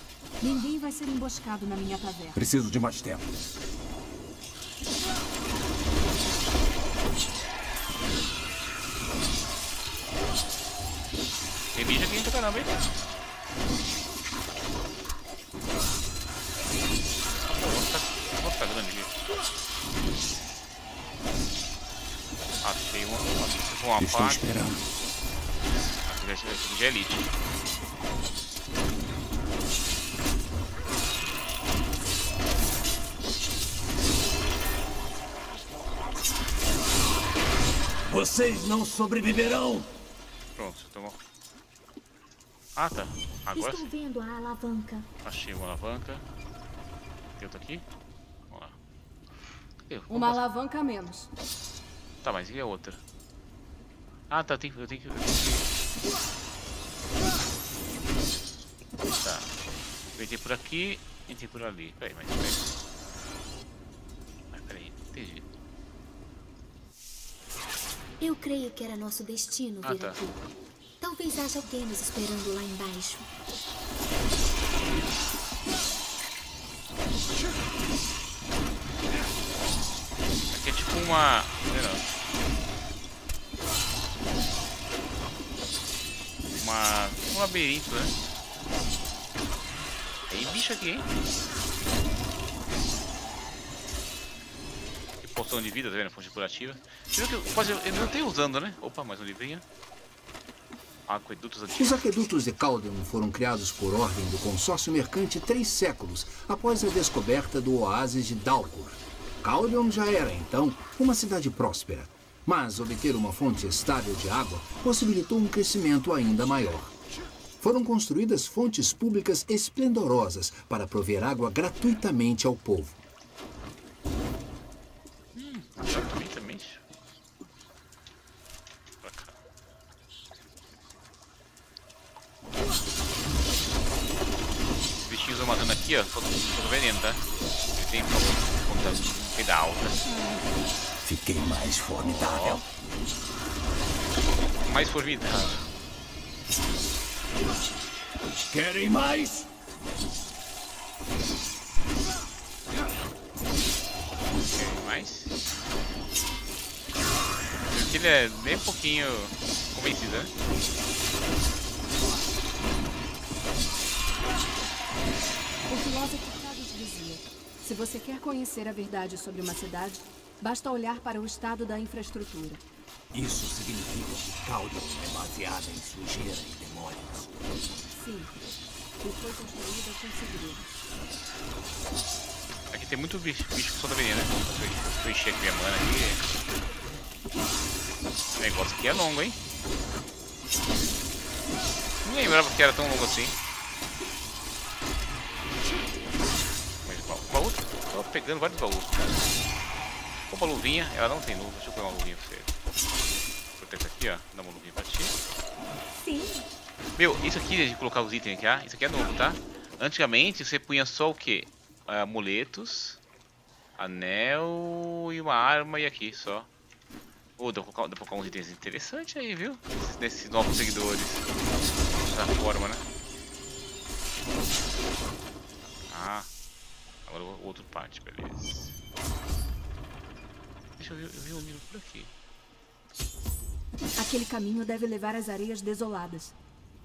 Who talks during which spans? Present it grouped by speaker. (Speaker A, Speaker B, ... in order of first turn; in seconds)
Speaker A: 0.4-2.5, 50.1-51.3, 165.7-172.6, 177.9-178.3, 179.0-180.8, 234.0-236.3
Speaker B: 2.4-3.3, 24.0-24.9, 38.1-39.9, 141.0-142.7, 148.5-149.5, 173.1-177.3
Speaker C: 11.7-12.7, 17.4-19.1, 22.6-24.4, 26.1-27.3, 40.6-41.2, 42.8-43.9, 45.2-46.2, 47.4-47.9, 48.5-48.8, 49.9-50.5, 52.2-53.0, 54.3-55.7, 59.2-59.5, 60.1-62.7, 64.5-65.5, 69.8-70.2, 80.5-82.0, 86.5-88.2, 90.3-91.1, 95.2-99.6, 101.1-102.1, 125.3-126.8, 129.0-129.4, 135.0-137.2, 137.7-140.2, 142.0-142.7, 144.6-145.7, 154.4-155.3, 157.7-160.3, 182.7-186.2, 188.4-189.4, 192.0-193.3, 196.8-199.2, 200.3-202.5, 203.6-205.2, 207.0-213.0, 213.8-216.5, 217.4-221.3, 222.0-222.8, 225.9-226.3, 227.1-228.7, 230.8-232.1
Speaker D: 43.5-45.1, 68.2-70.4, 71.0-73.3, 206.0-206.5
Speaker E: 101.8-116.9, 117.6-123.0